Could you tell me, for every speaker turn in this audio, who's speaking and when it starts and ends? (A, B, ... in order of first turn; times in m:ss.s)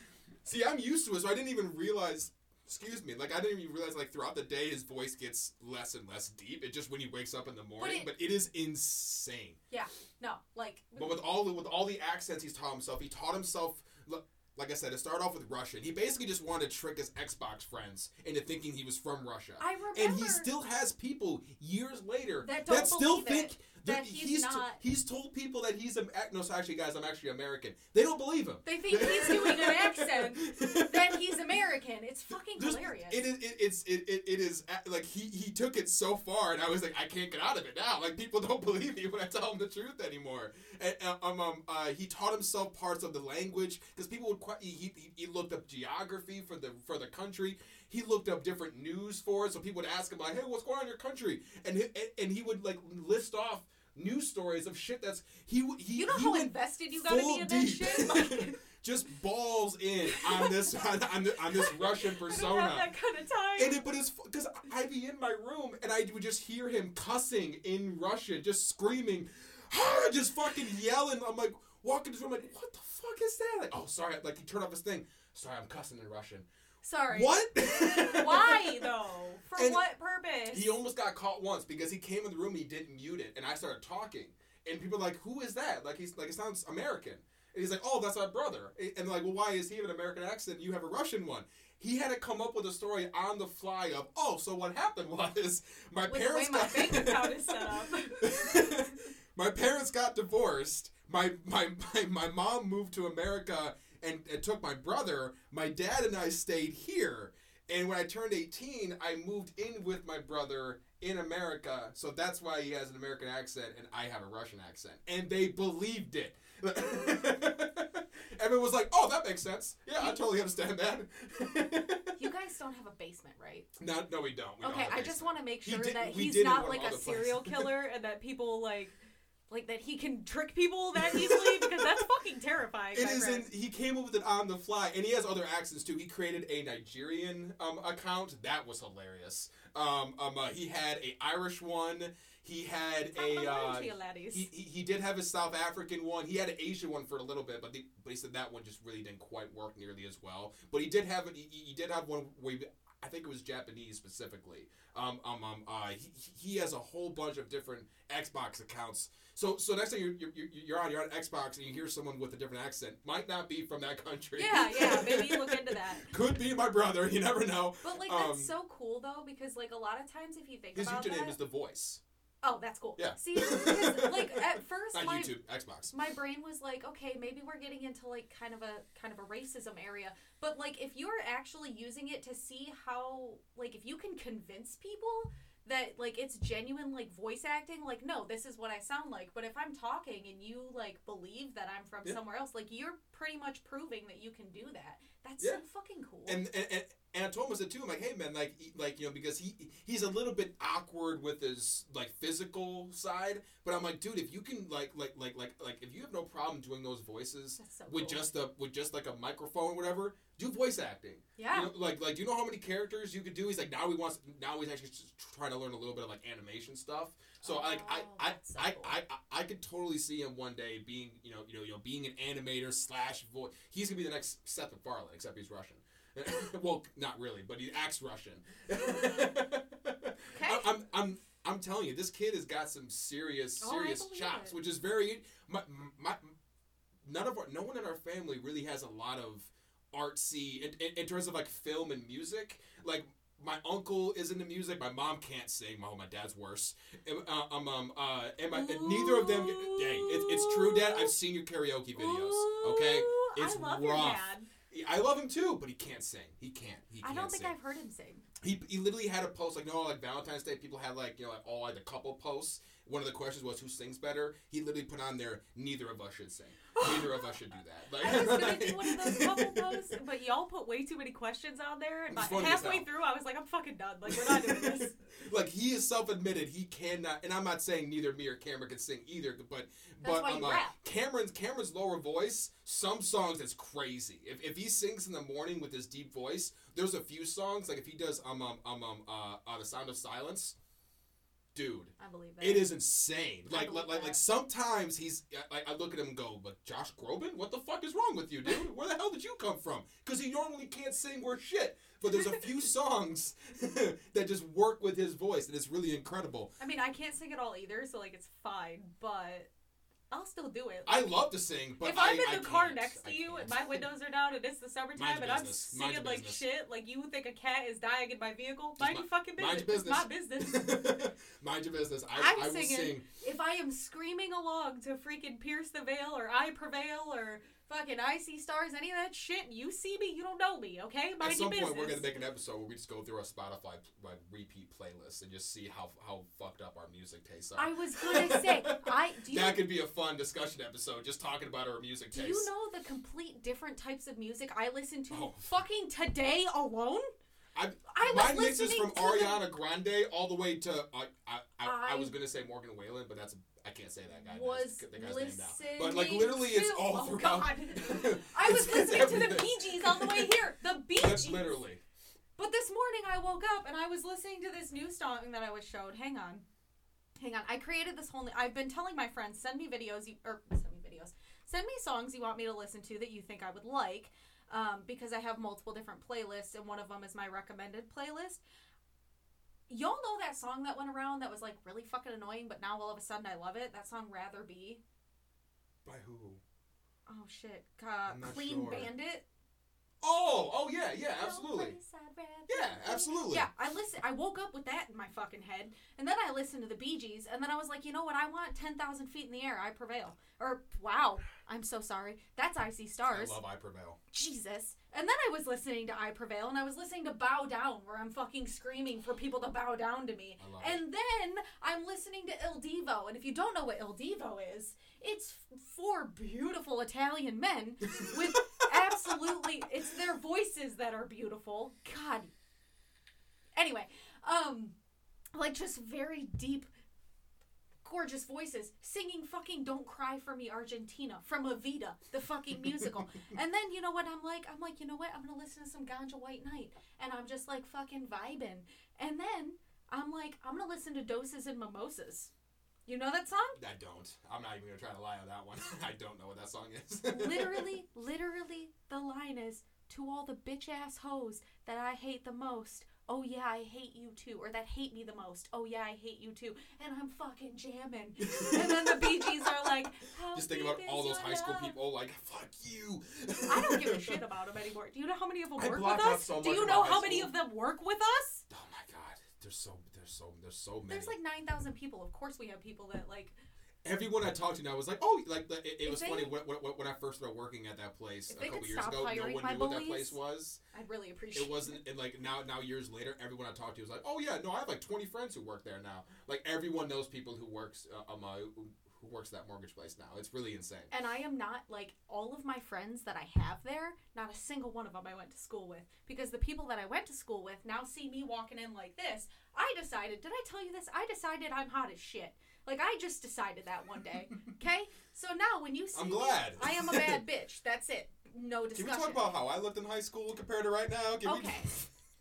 0:00.4-0:09.6 A
0:07.8-0:08.1 B
0:09.7-0:11.2 B
0:11.0-0:31.3 A
0:19.6-0:20.5 B
0:22.4-0:24.8 B
0:28.6-0:33.3 B
0:32.6-1:02.9 A
0:56.0-0:58.6 B
1:00.1-1:00.8 B
1:01.5-1:03.8 B
1:03.6-1:16.5 A
1:16.8-1:20.7 B
1:17.1-1:18.9 A
1:19.6-1:19.8 A
1:20.5-2:02.2 A
1:36.1-1:39.0 B
2:00.0-2:00.2 B
2:02.2-2:03.7 B
2:03.8-2:07.7 A
2:04.6-2:09.0 B
2:09.5-2:13.5 B
2:11.0-2:12.0 A
2:12.9-2:48.5 A
2:23.1-2:24.5 B
2:44.4-2:46.1 B
2:47.8-2:51.4 B
2:50.8-2:52.0 A
2:52.4-2:55.3 B
2:53.0-2:55.9 A
2:55.9-3:16.4 B
3:16.3-3:56.4 A
3:27.6-3:28.2 B
3:31.4-3:31.7 B
3:37.4-3:39.0 B
3:50.3-3:50.7 B
3:53.6-3:54.6 B
3:57.0-4:17.5 A
4:08.5-4:11.1 B
4:12.0-4:14.5 B
4:17.0-4:18.2 B
4:18.4-4:30.0 A
4:26.7-4:27.4 B
4:28.0-4:34.9 B
4:32.1-4:32.9 A
4:34.1-4:50.6 A
4:40.0-4:40.8 B
4:51.6-5:06.5 A
4:52.0-4:52.7 B
4:53.5-4:54.2 B
5:02.1-5:02.4 B
5:06.6-5:09.5 B
5:10.1-5:11.1 B
5:10.9-5:13.8 A
5:11.8-5:20.8 B
5:15.0-5:16.4 A
5:18.8-5:23.1 A
5:22.2-5:32.1 B
5:31.2-5:42.5 A
5:37.6-5:39.6 B
5:42.1-5:47.1 B
5:45.1-5:45.6 A
5:47.6-6:00.4 A
5:47.9-5:49.4 B
5:51.6-5:52.1 B
5:54.1-6:01.5 B
6:01.0-6:01.8 A
6:02.4-6:06.4 B
6:07.2-6:18.4 B
6:19.7-6:24.8 B
6:25.8-6:26.4 A
6:27.1-6:29.3 B
6:28.1-6:28.9 A
6:30.0-6:31.8 A
6:31.1-6:43.4 B
6:32.5-6:33.5 A
6:43.1-6:44.0 A
6:44.1-7:02.3 B
6:50.4-6:50.8 A
6:57.9-6:59.4 A
7:03.6-7:04.7 B
7:05.3-7:06.7 B
7:07.8-7:22.3 B
7:22.9-7:23.6 B
7:23.6-7:27.7 A
7:27.1-7:41.8 B
7:38.2-7:39.8 A
7:40.3-7:44.2 A
7:43.5-7:48.4 B
7:45.6-7:47.3 A
7:48.5-7:51.2 A
7:50.9-7:53.4 B
7:53.8-8:00.6 A
7:55.8-7:56.3 B
7:58.3-8:00.2 B
8:00.7-8:01.8 B
8:01.4-8:10.9 A
8:10.9-8:29.2 B
8:26.0-8:27.2 A
8:28.8-8:31.9 A
8:31.2-8:31.7 B